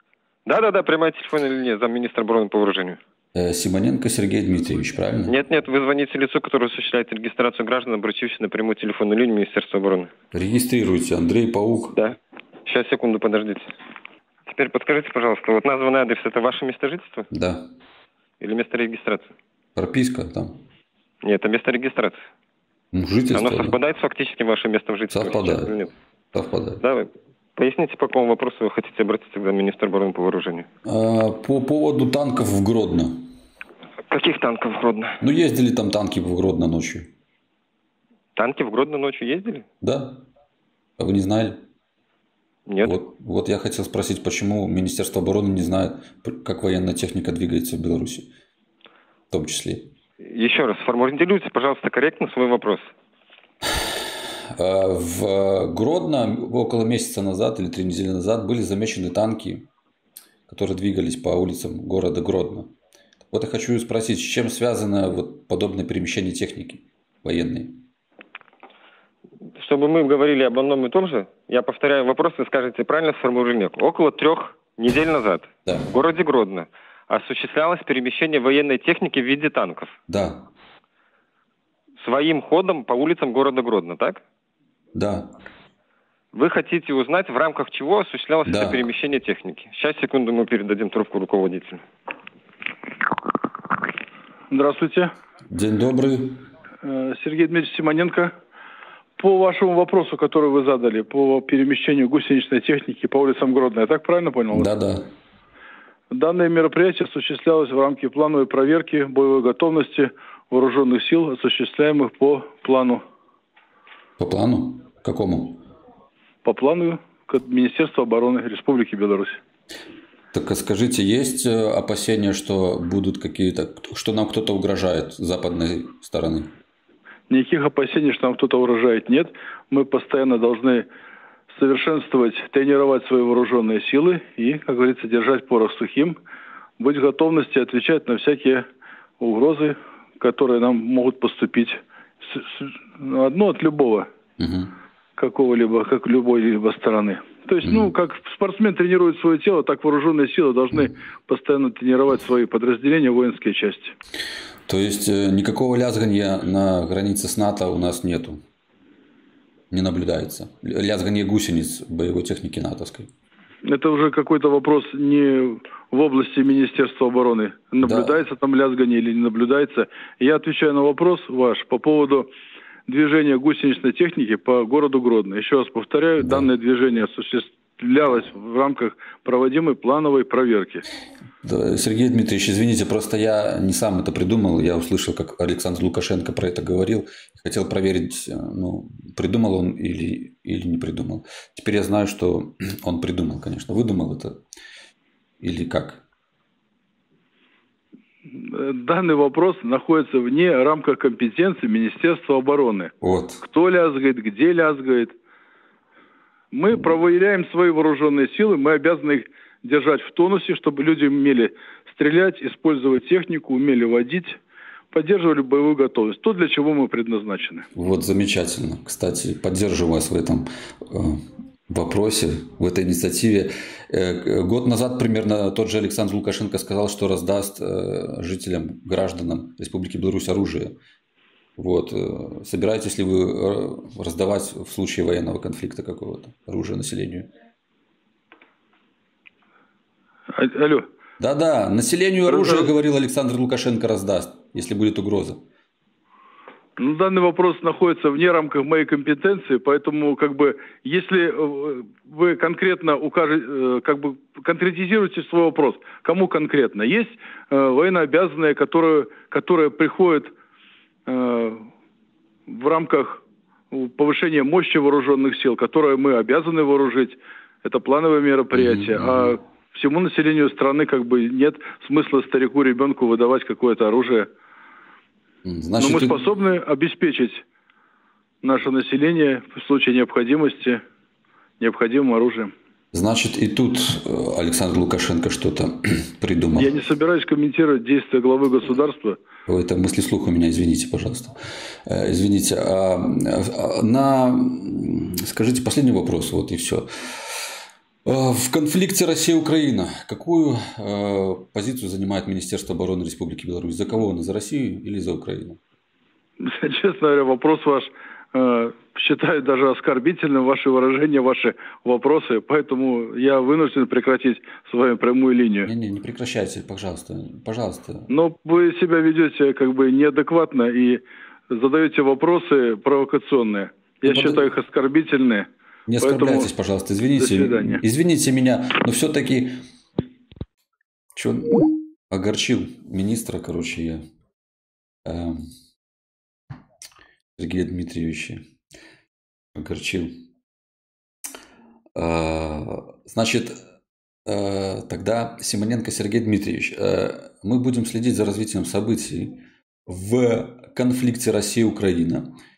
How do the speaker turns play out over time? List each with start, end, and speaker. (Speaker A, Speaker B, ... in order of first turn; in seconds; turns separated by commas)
Speaker A: 0.5-3.0, Speaker B: 3.4-5.3, Speaker A: 5.3-10.1, Speaker B: 10.3-11.9, Speaker A: 11.9-13.7, Speaker A: 14.5-17.3, Speaker B: 17.3-17.6, Speaker A: 18.4-19.3, Speaker B: 19.8-20.5, Speaker A: 21.2-22.2, Speaker B: 22.9-23.8, Speaker A: 23.3-25.9, Speaker B: 25.1-25.7, Speaker B: 26.3-26.8, Speaker A: 26.8-30.7, Speaker B: 30.9-33.2, Speaker A: 34.1-35.2, Speaker B: 35.2-37.1, Speaker A: 38.4-39.6, Speaker B: 39.8-40.2, Speaker B: 41.0-41.6, Speaker A: 42.7-42.9, Speaker B: 42.8-48.3, Speaker B: 49.3-49.9, Speaker A: 50.2-52.9, Speaker B: 54.6-59.7, Speaker B: 60.5-62.7, Speaker B: 63.3-67.8, Speaker A: 69.6-80.0, Speaker B: 80.1-80.5, Speaker A: 82.0-84.2, Speaker B: 85.0-85.3, Speaker A: 86.3-91.8, Speaker B: 88.5-88.8, Speaker C: 94.5-95.1, Speaker B: 95.5-96.4, Speaker C: 96.8-98.3, Speaker C: 99.2-104.7, Speaker B: 104.5-105.0, Speaker C: 106.1-113.0, Speaker B: 114.2-115.6, Speaker C: 116.4-119.4, Speaker B: 120.3-126.5, Speaker C: 127.3-130.9, Speaker C: 131.5-136.2, Speaker C: 136.8-138.6, Speaker C: 139.2-144.1, Speaker B: 144.4-144.7, Speaker C: 145.2-153.9, Speaker B: 147.6-147.9, Speaker B: 154.7-158.4, Speaker B: 159.7-163.1, Speaker C: 163.7-172.3, Speaker B: 167.8-168.2, Speaker C: 172.9-180.8, Speaker B: 176.2-176.5, Speaker B: 181.4-194.3, Speaker B: 195.4-196.0, Speaker C: 198.3-205.1, Speaker B: 203.0-203.4, Speaker C: 206.5-214.4, Speaker C: 214.9-217.7, Speaker B: 217.8-230.8, Speaker B: 231.6-237.3, Speaker C: 240.3-240.9, Speaker B: 241.2-245.4, Speaker C: 242.3-242.7, Speaker C: 246.8-260.3, Speaker C: 261.1-261.7, Speaker C: 262.5-274.3, Speaker B: 268.5-269.4, Speaker B: 275.4-276.2, Speaker C: 275.8-277.4, Speaker C: 278.4-280.8, Speaker C: 281.6-282.5, Speaker B: 282.9-286.7, Speaker C: 286.6-289.2, Speaker B: 289.5-291.3, Speaker B: 291.9-297.4, Speaker B: 298.1-305.6, Speaker C: 306.4-315.7, Speaker B: 315.7-318.1, Speaker C: 318.1-325.5, Speaker B: 324.1-324.5, Speaker B: 325.9-329.6, Speaker C: 326.0-326.5, Speaker C: 327.2-327.8, Speaker B: 331.1-334.0, Speaker B: 335.1-335.4, Speaker B: 337.4-338.4, Speaker B: 339.6-340.1, Speaker B: 341.9-343.5, Speaker B: 344.3-352.3